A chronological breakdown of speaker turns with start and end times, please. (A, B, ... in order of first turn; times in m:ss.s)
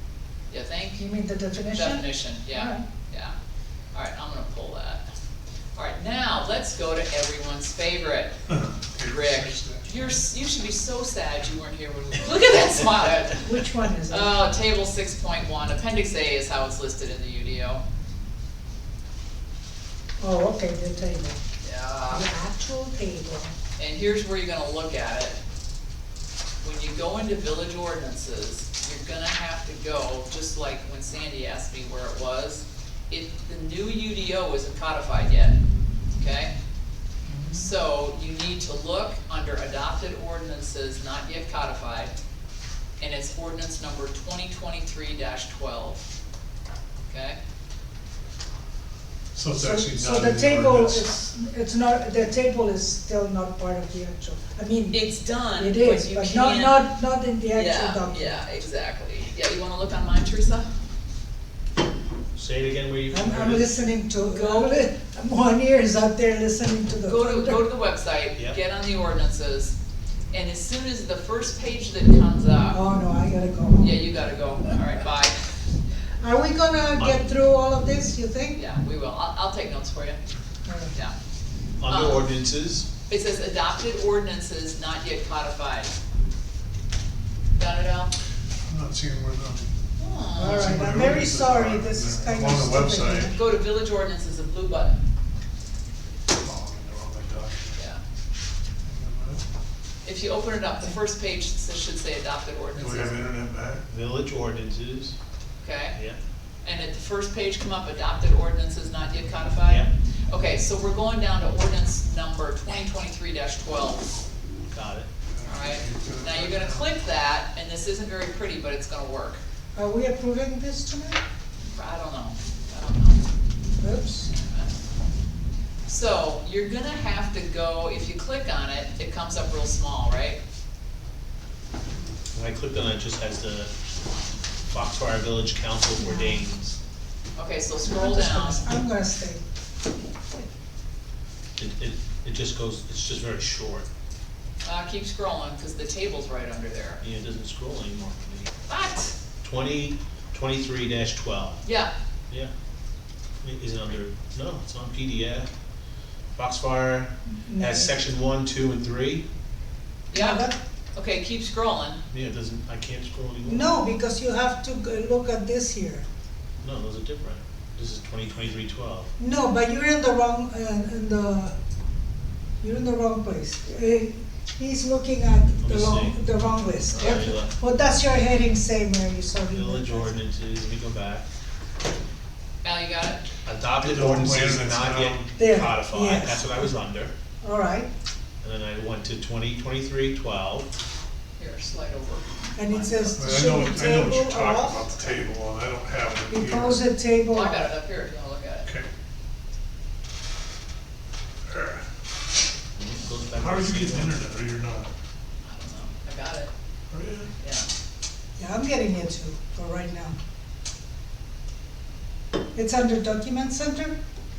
0:00.5-0:01.0 A
0:01.0-0:02.8 B
0:01.7-0:03.3 A
0:03.9-0:05.0 A
0:05.7-0:08.4 A
0:08.5-0:10.2 C
0:09.0-0:13.5 A
0:13.4-0:14.4 B
0:14.0-0:17.8 A
0:20.2-0:21.4 B
0:21.6-0:22.3 A
0:22.1-0:23.5 B
0:23.8-0:25.4 A
0:26.6-0:35.6 A
0:36.1-0:36.5 A
0:37.5-0:42.1 A
0:43.0-0:46.1 A
0:47.1-0:47.4 A
0:49.3-0:51.0 C
0:49.5-0:58.3 B
0:54.9-0:56.9 A
0:57.5-1:00.7 A
1:02.3-1:03.7 D
1:03.1-1:07.6 B
1:04.3-1:04.8 A
1:07.0-1:09.8 A
1:10.3-1:12.8 A
1:12.7-1:14.1 B
1:13.8-1:15.6 A
1:16.2-1:18.6 B
1:17.0-1:17.3 D
1:18.5-1:20.2 A
1:20.7-1:20.9 B
1:21.8-1:22.9 D
1:21.9-1:22.2 A
1:23.1-1:26.0 A
1:27.6-1:28.1 A
1:28.6-1:29.7 C
1:30.0-1:30.9 A
1:30.4-1:33.4 B
1:30.5-1:33.3 C
1:33.3-1:35.0 A
1:36.3-1:37.8 C
1:37.8-1:38.0 A
1:38.8-1:39.4 C
1:40.0-1:43.3 A
1:42.8-1:43.8 C
1:43.9-1:45.2 D
1:45.6-1:46.0 A
1:46.6-1:54.1 A
1:54.7-1:55.1 D
1:55.3-1:56.9 C
1:55.4-1:59.4 A
1:59.8-2:01.2 B
2:01.7-2:03.3 A
2:03.8-2:04.3 B
2:04.2-2:04.7 A
2:05.9-2:10.4 A
2:12.3-2:13.7 D
2:14.7-2:16.8 D
2:15.9-2:16.4 B
2:17.4-2:18.8 A
2:17.8-2:19.4 B
2:21.6-2:23.8 D
2:24.6-2:27.0 A
2:27.0-2:28.5 D
2:28.7-2:29.2 A
2:29.4-2:31.6 D
2:31.6-2:31.9 A
2:33.4-2:35.5 D
2:36.3-2:39.2 D
2:37.4-2:37.9 B
2:40.1-2:42.0 A
2:40.1-2:40.6 B
2:42.1-2:43.8 D
2:43.4-2:46.1 B
2:46.6-2:49.1 D
2:49.2-2:51.5 B
2:52.6-3:00.2 B
2:55.6-2:57.6 D
2:59.4-3:01.2 D
3:02.6-3:03.2 A
3:03.4-3:07.1 D
3:03.8-3:05.3 C
3:05.4-3:06.6 B
3:07.4-3:07.9 B
3:08.4-3:10.7 D
3:11.4-3:13.5 A
3:12.6-3:15.0 B
3:13.2-3:16.8 C
3:16.3-3:17.7 B
3:17.3-3:18.7 A
3:21.5-3:21.8 C
3:22.8-3:24.2 D
3:23.4-3:24.9 C
3:25.4-3:26.5 A
3:26.9-3:27.3 C
3:27.4-3:27.7 A
3:28.4-3:30.2 B
3:32.5-3:34.0 B